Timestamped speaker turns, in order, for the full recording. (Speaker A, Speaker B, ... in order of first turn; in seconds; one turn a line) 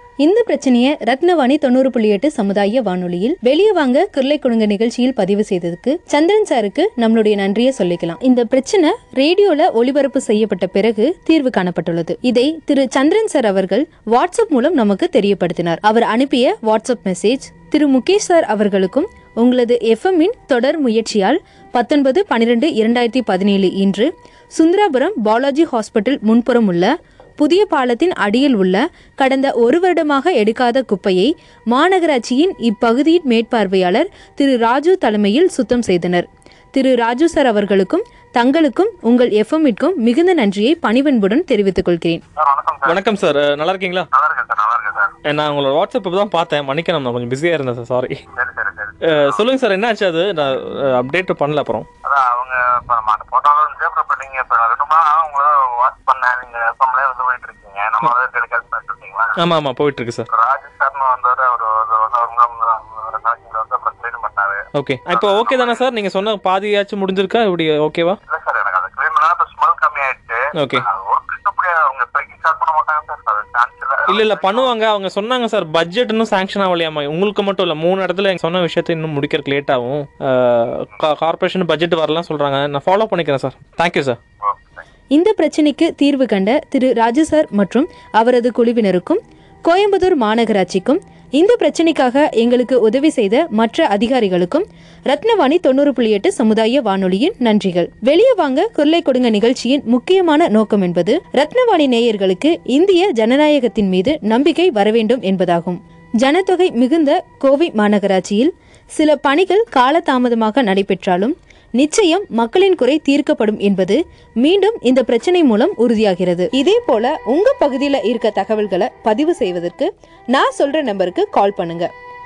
Speaker A: 0.2-42.2
Speaker B: 42.4-43.0
Speaker C: 42.9-44.1
Speaker B: 44.1-45.1
Speaker C: 45.3-48.2
Speaker B: 48.4-49.4
Speaker C: 49.1-51.9
Speaker B: 52.0-59.3
Speaker C: 59.4-60.3
Speaker B: 60.3-65.8
Speaker C: 64.8-68.2
Speaker B: 68.3-74.7
Speaker C: 70.6-70.8
Speaker C: 74.1-84.2
Speaker B: 84.4-84.8
Speaker A: 85.2-121.9